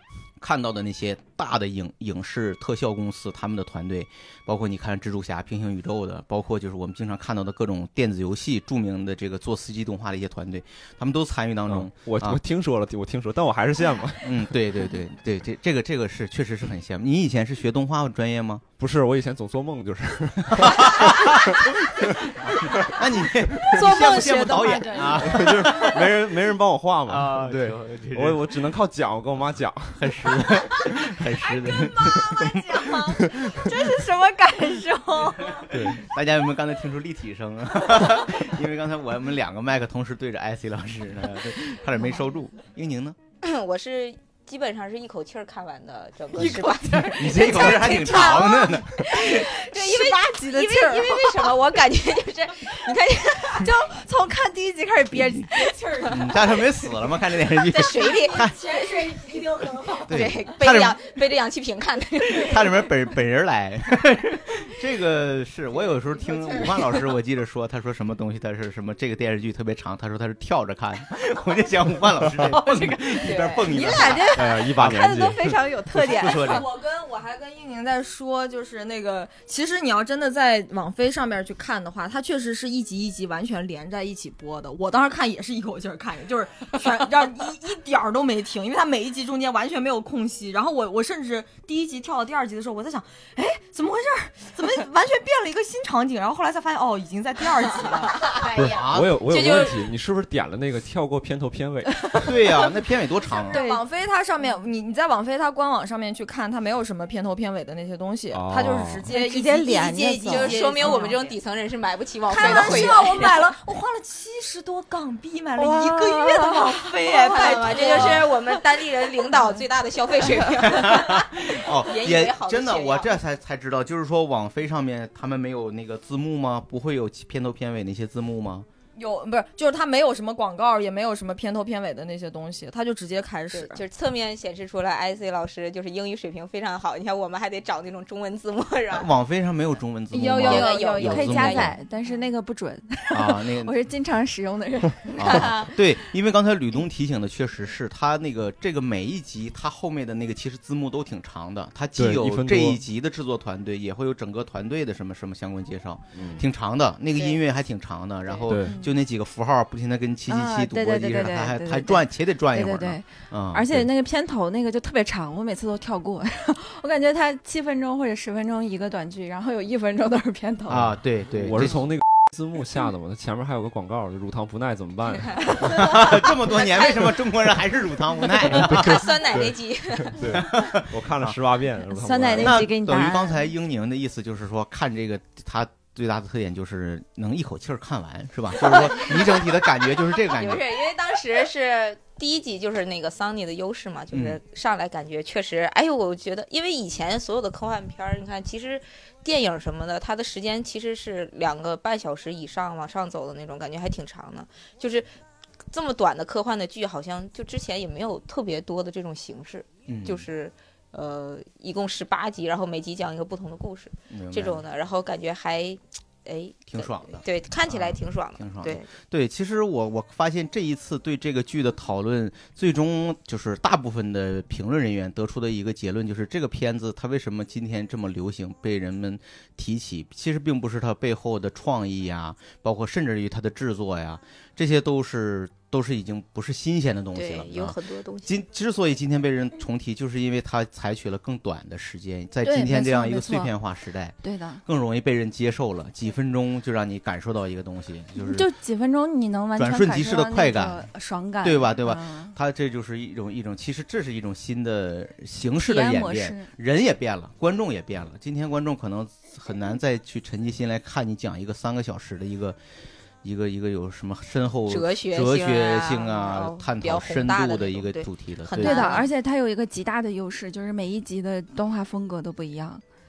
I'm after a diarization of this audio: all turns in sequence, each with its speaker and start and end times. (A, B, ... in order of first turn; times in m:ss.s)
0:00.4-0:12.4 A
0:11.7-0:14.5 B
0:14.2-0:18.6 A
0:18.8-0:23.0 B
0:20.6-0:26.1 A
0:23.7-0:25.9 C
0:25.3-0:30.1 B
0:27.1-0:28.6 A
0:30.0-0:33.3 A
0:31.6-0:35.6 C
0:35.5-0:43.2 A
0:35.7-0:36.0 B
0:43.4-0:53.7 D
0:46.3-0:49.4 A
0:46.7-0:51.5 C
0:53.6-0:56.1 C
0:56.1-0:58.6 A
0:57.5-0:58.5 D
0:58.4-1:00.0 E
0:58.8-0:59.7 C
0:59.9-1:02.8 D
1:00.0-1:01.0 A
1:02.2-1:15.0 A
1:13.3-1:14.0 D
1:13.6-1:16.6 C
1:14.3-1:15.6 B
1:16.0-1:16.6 A
1:16.0-1:38.4 E
1:38.1-1:39.8 D
1:38.5-1:42.4 B
1:38.6-1:39.5 A
1:42.2-1:43.6 A
1:43.3-1:51.3 E
1:43.5-1:43.8 C
1:48.3-1:49.1 B
1:49.1-1:51.2 C
1:50.2-1:53.5 D
1:52.3-1:58.6 E
1:52.4-1:53.0 C
1:55.6-1:56.6 C
1:55.6-2:03.2 D
1:57.9-1:58.2 A
2:00.4-2:08.7 A
2:09.0-2:13.8 E
2:13.5-2:19.1 D
2:18.9-2:21.8 A
2:20.1-2:25.5 C
2:20.3-2:21.8 D
2:23.1-2:23.7 A
2:25.2-2:43.8 A
2:25.2-2:25.7 D
2:32.0-2:32.8 B
2:36.1-2:36.4 B
2:38.5-2:38.8 B
2:38.6-2:38.9 C
2:40.3-2:51.0 C
2:50.7-2:51.9 A
2:51.4-2:55.9 B
2:55.6-2:59.1 A
2:58.5-3:00.2 D
2:58.6-3:02.7 B
3:00.3-3:01.4 A
3:01.9-3:03.4 C
3:02.4-3:10.6 A
3:08.9-3:09.3 D
3:10.3-3:25.1 D
3:14.1-3:14.4 A
3:25.7-3:38.9 D
3:29.9-3:30.3 A
3:34.1-3:34.6 A
3:36.7-4:08.5 A
3:57.1-3:58.4 D
4:02.4-4:03.5 C
4:04.2-4:04.6 C
4:08.2-4:12.4 C
4:09.6-4:10.9 A
4:11.4-4:22.6 A
4:15.6-4:16.5 C
4:23.2-4:29.0 A
4:24.7-4:29.0 D
4:28.6-4:32.8 C